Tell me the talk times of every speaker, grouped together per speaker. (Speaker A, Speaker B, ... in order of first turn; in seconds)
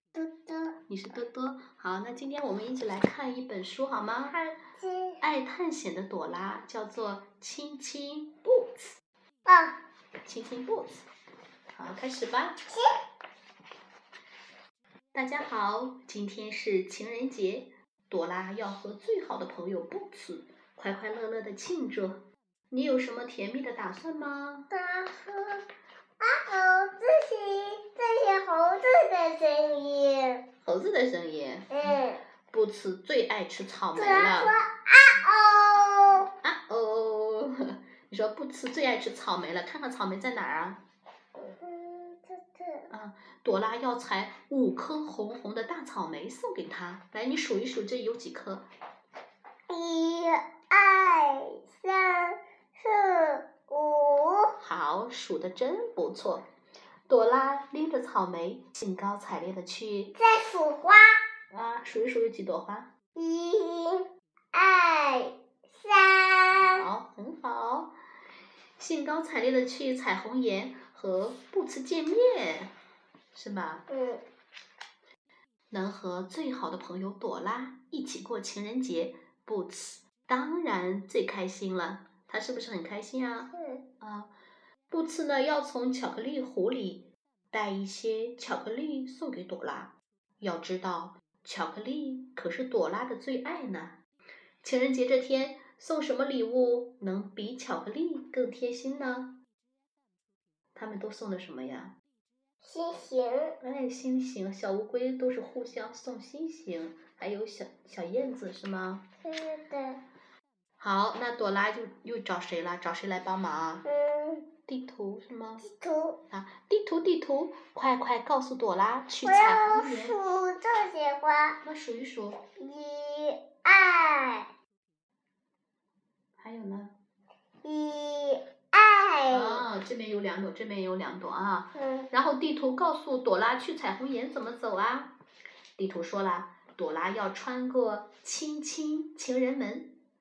Speaker A: 0.1-0.8, 4.3-5.2, 9.4-9.8, 24.7-25.6, 26.2-30.4, 31.7-32.2, 34.0-36.3, 41.4-42.9, 49.7-54.6, 60.1-61.1, 63.1-66.8, 73.9-74.2, 83.5-83.8, 102.6-103.6, 109.2-110.0, 113.8-114.5, 115.6-116.2, 119.2-121.6, 122.6-124.5, 127.6-129.7, 131.7-132.1
Speaker B: 0.9-4.4, 5.2-9.0, 10.2-11.0, 11.7-12.6, 15.1-24.7, 30.6-32.0, 32.5-34.5, 36.4-40.8, 42.9-48.7, 54.6-56.5, 57.1-60.2, 61.5-62.9, 66.8-67.9, 68.8-72.7, 73.3-73.9, 75.7-84.3, 84.9-94.0, 94.6-99.4, 100.8-101.9, 103.6-109.0, 110.8-113.8, 114.7-115.7, 116.3-120.2, 121.6-122.4, 126.4-126.9, 129.3-135.1, 135.8-139.9